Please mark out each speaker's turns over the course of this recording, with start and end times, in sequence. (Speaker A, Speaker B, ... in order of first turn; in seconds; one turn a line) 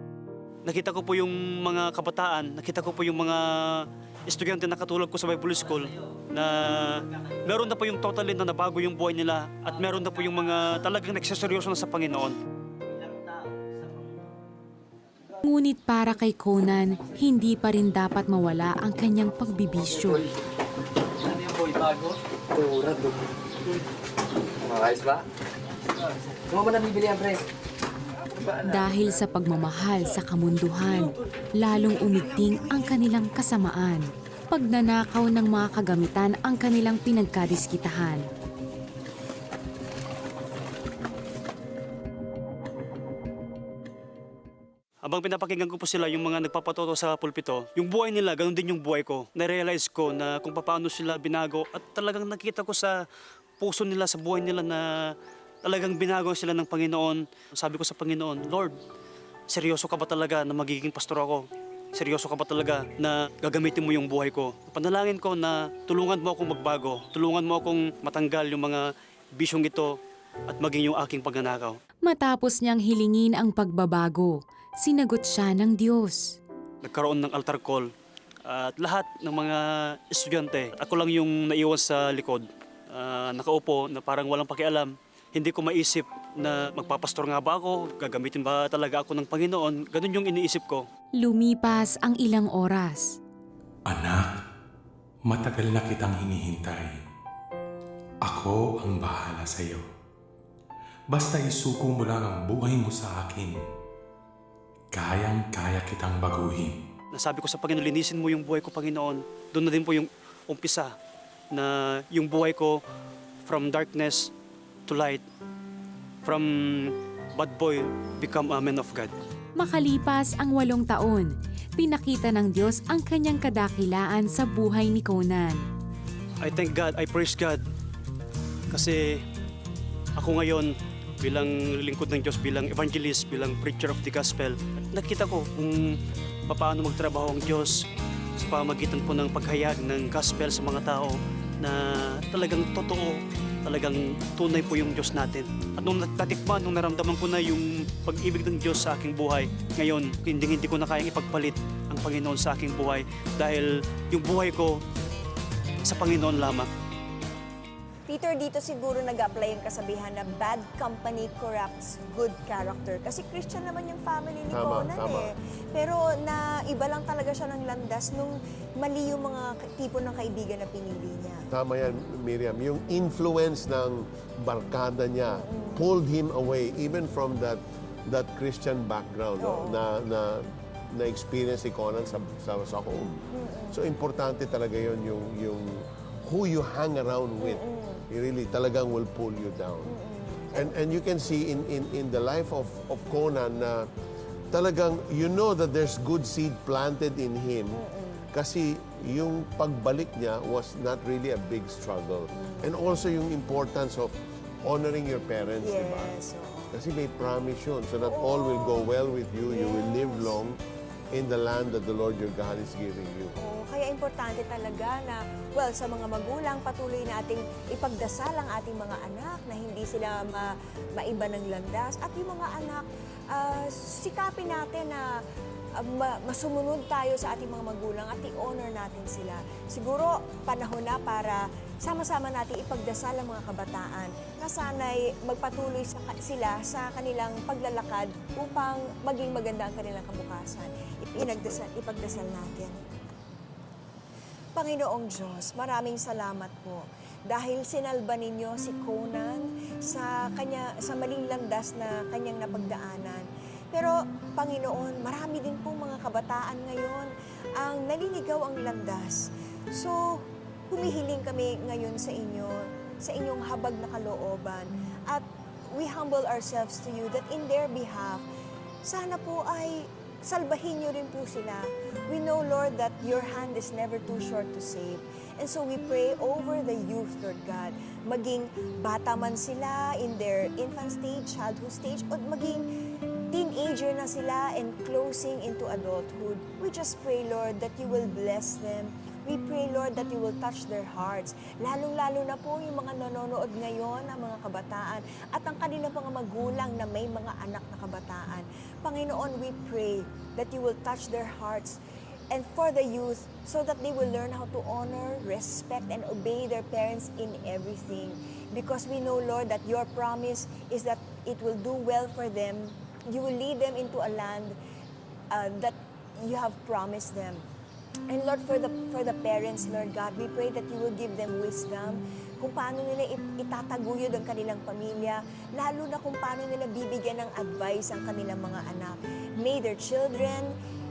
Speaker A: 0.7-12.4
Speaker B: 15.4-20.2
Speaker C: 21.3-23.2
Speaker C: 24.6-25.2
Speaker C: 26.5-27.4
Speaker C: 28.2-29.2
Speaker B: 28.6-38.2
Speaker C: 31.9-32.9
Speaker A: 45.0-53.0
Speaker A: 53.6-58.8
Speaker A: 59.5-70.0
Speaker A: 70.5-71.7
Speaker B: 72.0-76.3
Speaker A: 76.8-77.9
Speaker A: 78.4-90.8
Speaker B: 91.2-93.2
Speaker D: 93.9-94.4
Speaker D: 95.2-97.0
Speaker D: 98.2-99.8
Speaker D: 101.1-103.6
Speaker D: 104.9-106.8
Speaker A: 107.1-110.9
Speaker A: 111.5-112.8
Speaker A: 113.4-114.3
Speaker A: 114.9-115.2
Speaker A: 116.2-119.1
Speaker B: 119.5-125.6
Speaker A: 126.4-127.6
Speaker A: 128.7-129.2
Speaker A: 130.2-136.0
Speaker A: 136.5-137.8
Speaker A: 138.4-154.8
Speaker A: 155.8-156.7
Speaker E: 158.1-171.5
Speaker F: 164.5-165.3
Speaker F: 171.5-189.9
Speaker E: 175.3-175.8
Speaker E: 179.4-179.8
Speaker E: 183.3-183.8
Speaker E: 187.4-188.1
Speaker E: 189.8-190.7
Speaker F: 190.5-193.9
Speaker F: 194.5-206.1
Speaker E: 197.7-198.3
Speaker E: 202.3-202.7
Speaker E: 205.6-206.7
Speaker F: 206.7-210.6
Speaker E: 208.0-208.9
Speaker E: 209.4-210.3
Speaker F: 211.1-213.3
Speaker E: 213.4-225.0
Speaker E: 225.8-242.8
Speaker F: 241.2-241.6
Speaker E: 244.6-268.2
Speaker E: 268.8-282.6
Speaker E: 283.3-301.8
Speaker E: 302.3-314.6
Speaker E: 315.3-317.4
Speaker E: 318.1-330.5